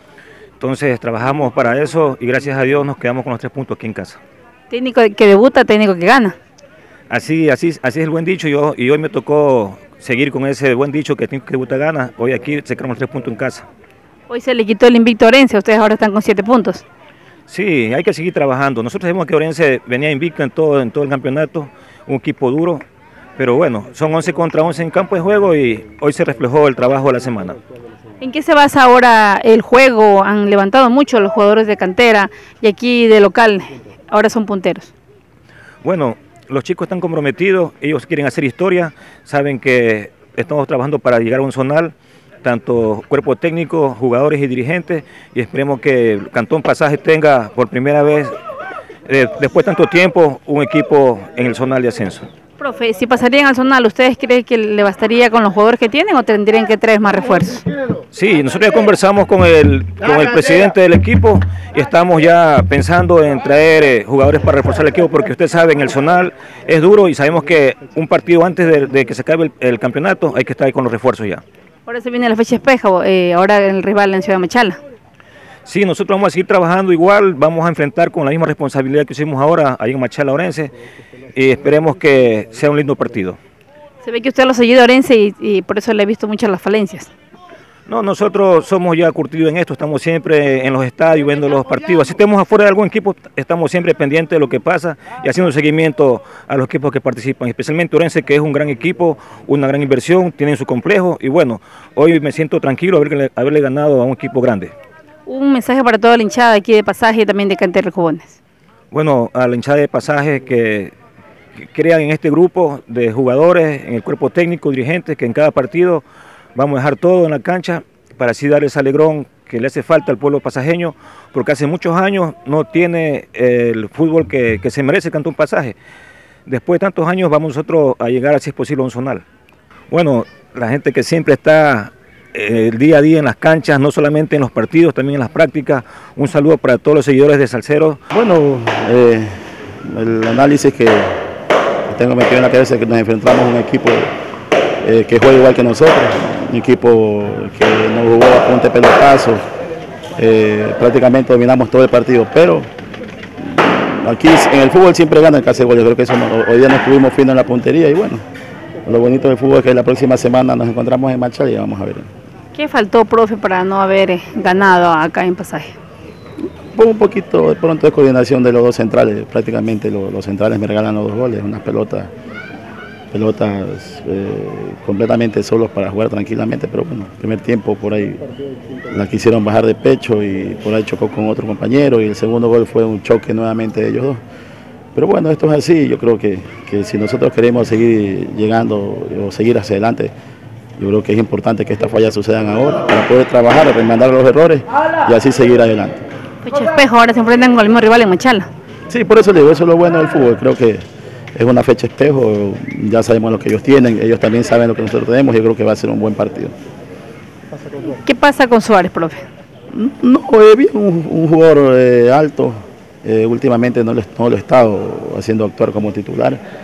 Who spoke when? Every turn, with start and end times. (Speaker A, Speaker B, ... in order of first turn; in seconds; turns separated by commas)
Speaker A: 0.6-4.2, Speaker B: 4.7-6.4, Speaker A: 7.1-13.7, Speaker B: 14.3-16.8, Speaker A: 17.5-22.8, Speaker A: 23.4-27.6, Speaker B: 28.2-34.9, Speaker A: 35.8-48.4, Speaker A: 49.1-52.3, Speaker B: 52.6-57.6, Speaker A: 58.1-71.4, Speaker B: 71.9-74.8, Speaker A: 75.7-80.7, Speaker A: 81.3-83.4, Speaker B: 84.0-87.1, Speaker A: 87.9-104.8, Speaker B: 105.3-108.4, Speaker A: 108.9-110.9, Speaker A: 111.6-116.0, Speaker A: 116.5-125.8, Speaker A: 126.5-129.2, Speaker A: 129.9-138.0, Speaker C: 138.1-141.2, Speaker C: 141.9-144.1, Speaker C: 144.8-149.4, Speaker C: 150.2-152.7, Speaker C: 153.4-158.2, Speaker C: 158.9-162.1, Speaker B: 162.5-165.8, Speaker C: 166.7-172.1, Speaker C: 173.1-178.2, Speaker C: 178.9-184.2, Speaker C: 184.9-190.1, Speaker C: 190.8-196.0, Speaker B: 196.4-198.5, Speaker C: 198.9-200.8, Speaker C: 201.3-206.5, Speaker B: 207.9-209.3, Speaker C: 209.7-216.4